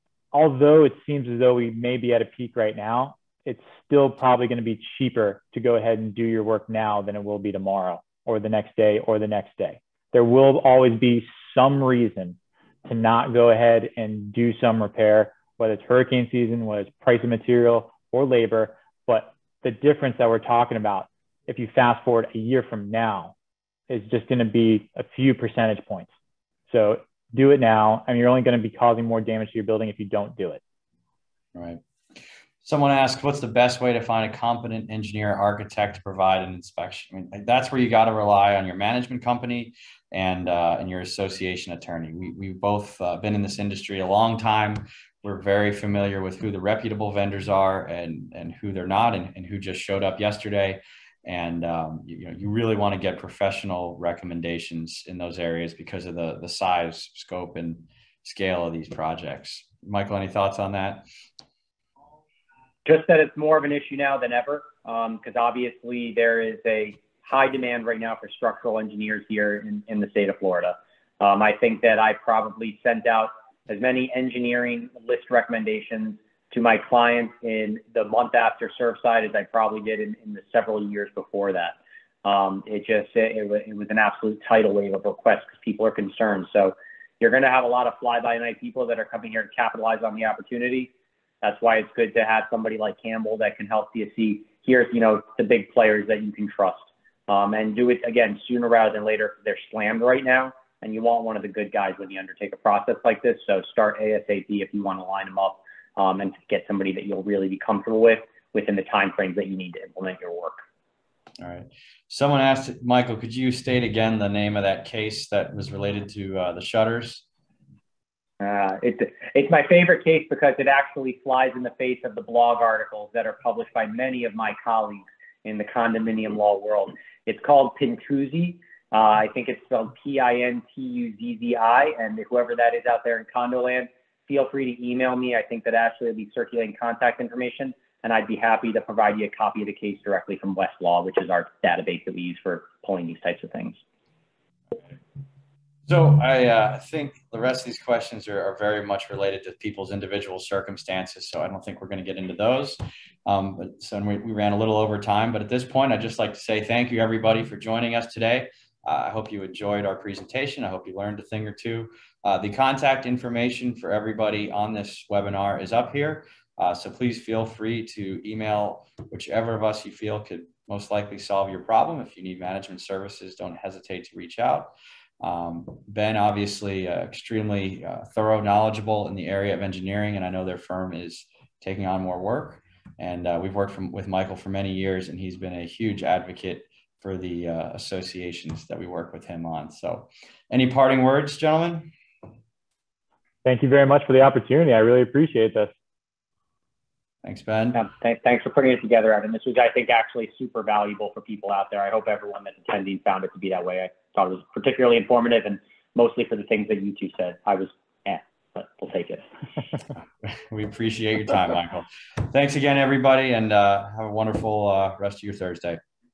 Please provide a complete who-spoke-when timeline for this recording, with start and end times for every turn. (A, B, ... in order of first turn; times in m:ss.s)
0:00.3-0:23.3 A
0:23.9-0:26.1 A
0:26.7-0:30.6 A
0:31.5-1:01.0 B
1:02.8-1:50.6 C
1:51.4-1:57.2 B
1:58.4-2:23.8 C
2:25.9-3:11.9 B
3:13.4-3:15.7 A
3:17.2-3:17.8 B
3:17.7-3:29.3 C
3:30.2-3:35.8 B